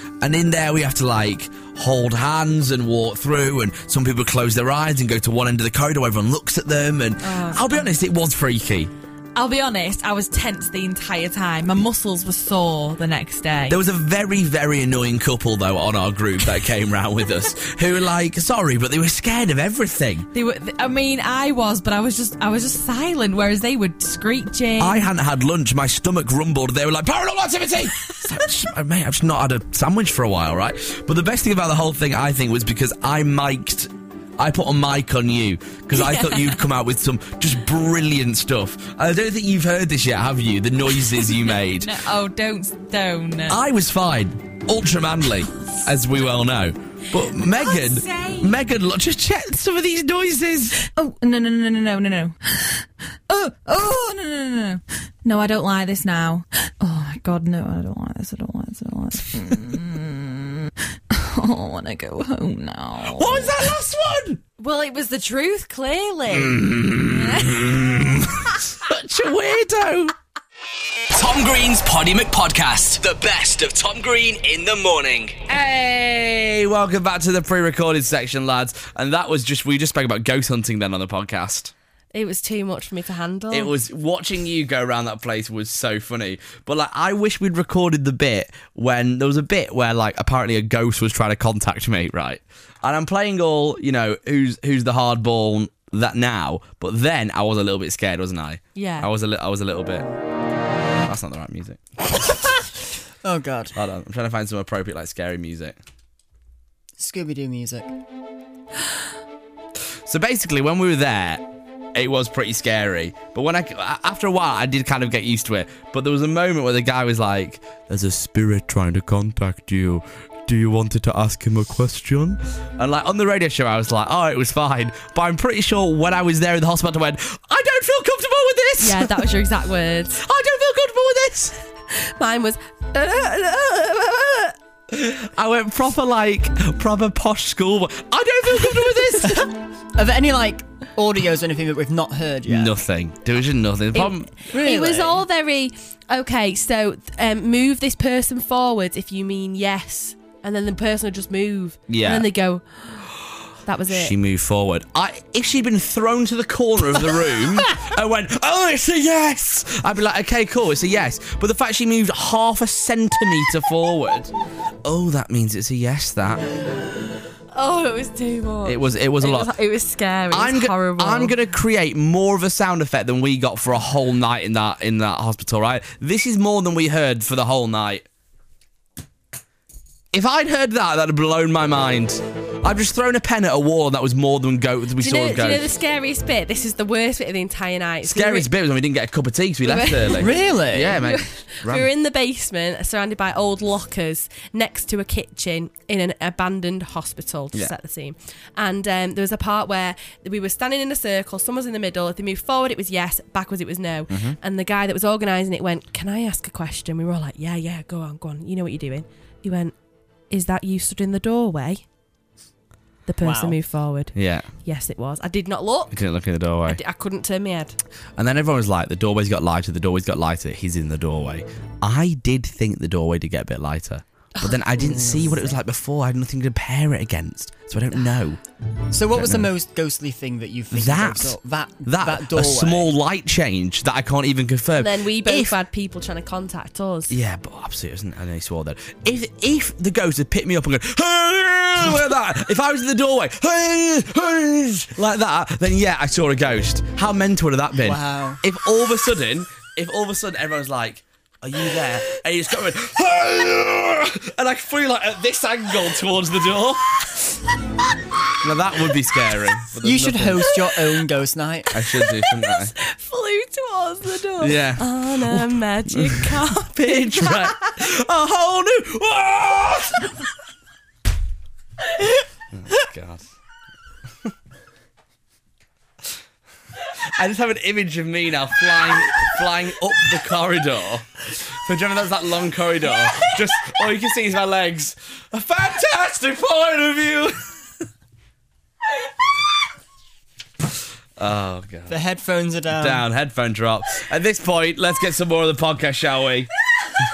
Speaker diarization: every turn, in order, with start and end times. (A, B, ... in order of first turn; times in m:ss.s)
0:00.2-0:08.9 A
0:07.2-0:07.8 B
0:09.4-0:13.8 B
0:13.7-0:20.3 A
0:20.3-0:25.1 B
0:24.8-0:42.0 A
0:35.9-0:36.6 B
0:41.3-0:43.6 B
0:43.5-0:50.9 A
0:47.4-0:48.5 B
0:50.9-1:03.6 B
1:03.0-1:04.4 A
1:04.6-1:07.7 B
1:06.3-1:10.1 A
1:11.1-1:15.4 C
1:15.5-1:21.7 A
1:22.1-1:23.7 D
1:23.5-1:40.1 A
1:38.8-1:39.1 D
1:41.0-1:42.4 A
1:43.2-1:43.8 E
1:43.8-1:45.8 A
1:47.0-1:47.9 E
1:50.0-2:09.3 A
2:08.8-2:10.2 D
2:10.2-2:11.6 A
2:11.9-2:14.6 D
2:14.9-2:19.5 A
2:19.3-2:22.7 E
2:22.5-2:24.4 A
2:23.9-2:33.1 D
2:24.5-2:25.2 E
2:31.9-2:32.3 A
2:33.6-2:34.2 D
2:33.9-2:44.3 A
2:44.8-2:46.5 A
2:47.5-2:51.4 D
2:48.6-2:49.5 A
2:50.3-2:58.1 A
3:00.1-3:05.7 A
3:05.0-3:08.5 D
3:08.0-3:11.9 A
3:09.6-3:29.8 D
3:10.2-3:11.0 E
3:24.1-3:24.4 A
3:30.3-3:31.8 D
3:33.1-3:36.0 D
3:33.2-3:33.6 E
3:34.2-3:34.5 A
3:35.9-3:36.8 A
3:36.6-3:37.8 D
3:38.2-3:48.4 A
3:44.5-3:45.0 D
3:44.9-3:45.3 E
3:48.9-3:52.9 E
3:49.1-3:49.5 A
3:50.7-3:55.6 A
3:54.8-3:57.2 D
3:57.1-4:17.4 A
4:07.8-4:08.4 E
4:18.4-4:20.6 A
4:19.8-4:21.8 E
4:21.7-4:22.8 A
4:22.5-4:27.7 D
4:24.4-4:30.2 A
4:32.5-4:33.3 A
4:37.1-4:47.6 A
4:51.2-4:52.0 A
4:51.9-4:53.0 E
4:52.7-4:56.5 A